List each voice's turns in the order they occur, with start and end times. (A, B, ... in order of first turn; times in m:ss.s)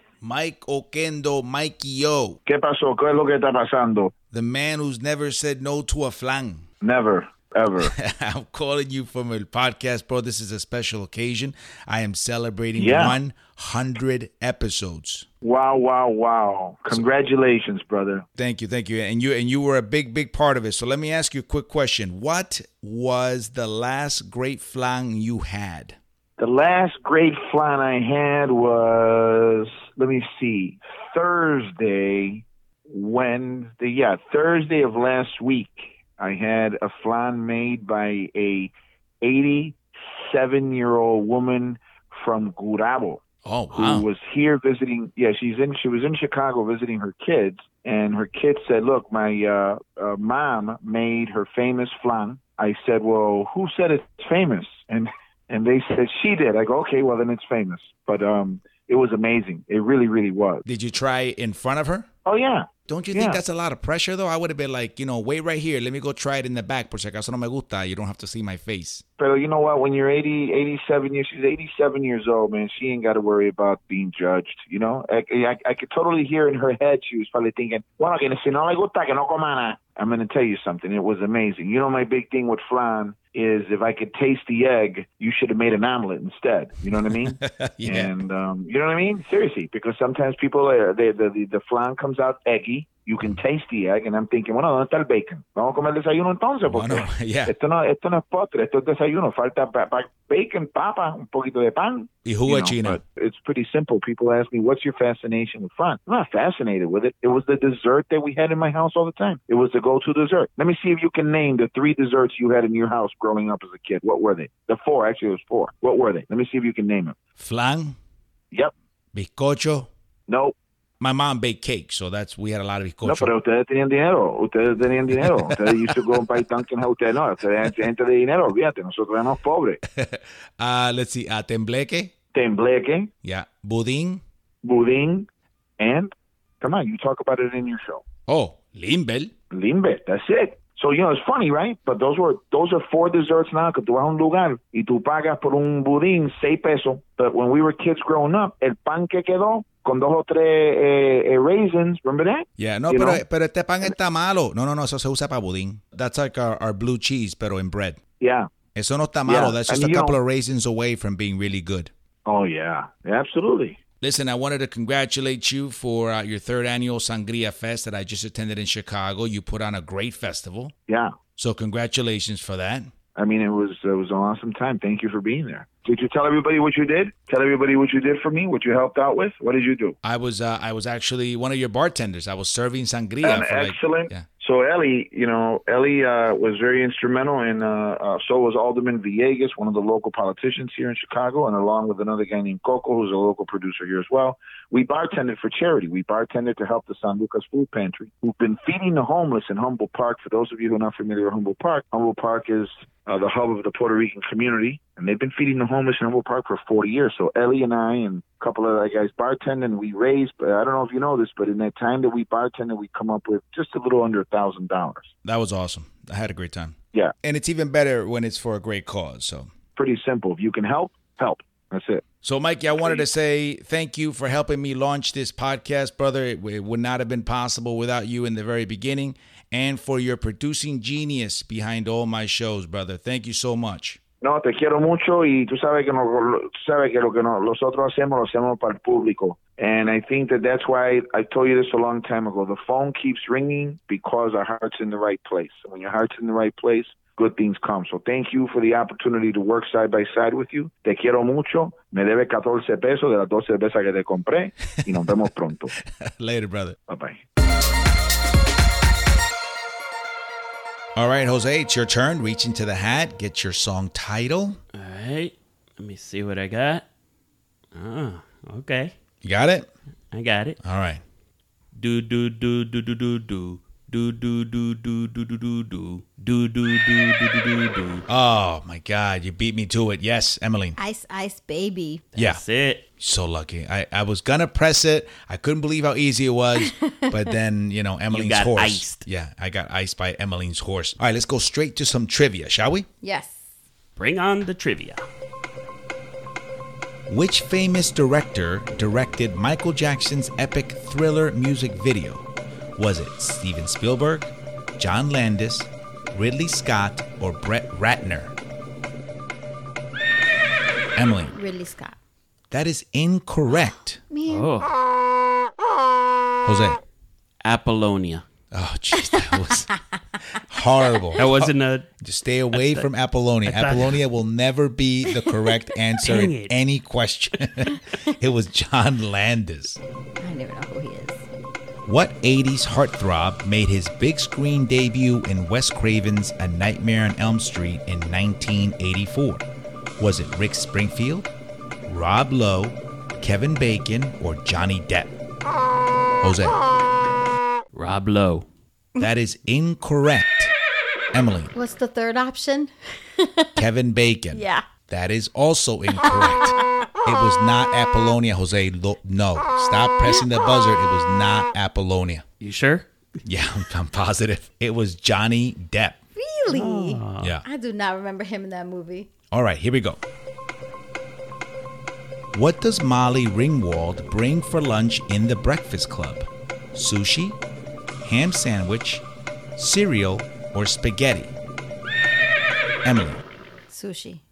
0:00.2-0:02.4 A
0:02.4-0:04.1 B
0:04.3-0:06.7 A
0:06.8-0:07.9 B
0:07.8-0:15.2 A
0:12.8-0:13.2 B
0:15.4-0:18.2 B
0:18.4-0:26.0 A
0:26.4-0:43.2 B
0:43.4-0:44.1 A
0:43.7-1:00.6 B
1:00.6-1:02.1 A
1:02.2-1:03.4 B
1:02.9-1:09.0 A
1:09.2-1:57.2 B
1:27.0-1:28.1 A
1:36.6-1:37.5 A
1:42.2-1:43.0 A
1:57.4-1:58.0 A
1:59.1-1:59.9 A
2:00.3-2:00.6 B
2:01.0-2:03.3 A
2:03.0-2:09.8 B
2:05.1-2:06.4 A
2:09.9-2:12.1 A
2:12.3-2:13.1 B
2:13.2-2:14.2 A
2:14.6-2:15.3 B
2:15.8-2:18.0 B
2:18.3-2:19.3 A
2:19.5-2:33.2 B
2:32.6-2:38.0 A
2:38.2-2:38.5 B
2:38.7-2:41.9 A
2:39.2-2:40.2 B
2:42.2-2:43.8 B
2:44.0-2:50.7 A
2:50.9-2:51.1 B
2:51.4-2:52.9 A
2:53.2-3:00.0 B
3:00.0-3:04.2 A
3:03.2-3:35.1 B
3:35.2-3:39.5 A
3:39.8-3:42.0 B
3:42.2-3:54.0 A
3:54.2-4:15.7 B
4:16.0-4:16.8 A
4:16.9-4:17.2 B
4:20.9-4:24.6 A
4:24.7-4:26.8 C
4:27.7-4:28.9 C
4:29.2-4:29.7 A
4:30.1-4:30.6 C
4:30.6-4:31.0 A
4:31.8-4:38.0 C
4:38.1-4:40.8 A
4:40.8-4:42.0 D
4:42.1-4:42.8 C
4:42.2-4:42.4 A
4:43.0-4:52.9 A
4:46.6-4:47.2 D
4:48.1-4:49.0 C
4:53.0-4:53.4 D
4:54.0-4:55.0 C
4:57.1-5:08.3 A
5:11.0-5:11.3 A
5:11.3-5:12.0 D
5:12.5-5:14.0 A
5:14.1-5:14.5 D
5:14.3-5:14.7 C
5:16.4-5:16.8 A
5:17.4-5:18.2 C
5:18.5-5:19.7 A
5:19.0-5:19.4 D
5:20.3-5:29.8 A
5:21.2-5:21.9 C
5:22.5-5:22.9 C
5:23.4-5:24.0 C
5:26.0-5:26.5 C
5:30.2-5:31.2 D
5:31.8-5:39.4 A
5:40.0-5:41.3 A
5:41.8-5:45.1 A
5:46.2-5:46.6 A
5:47.7-5:48.4 C
5:49.0-5:50.5 A
5:51.1-5:51.5 A
5:51.5-5:53.6 D
5:53.6-6:02.2 A
5:54.3-5:54.6 D
5:56.0-5:56.4 D
6:02.4-6:02.9 C
6:03.2-6:06.0 A
6:06.2-6:09.1 D
6:06.5-6:07.3 C
6:07.2-6:07.4 A
6:09.3-6:10.0 A
6:12.3-6:17.4 A
6:18.0-6:19.0 A
6:19.6-6:21.3 A
6:22.8-6:23.2 A
6:23.7-6:24.2 D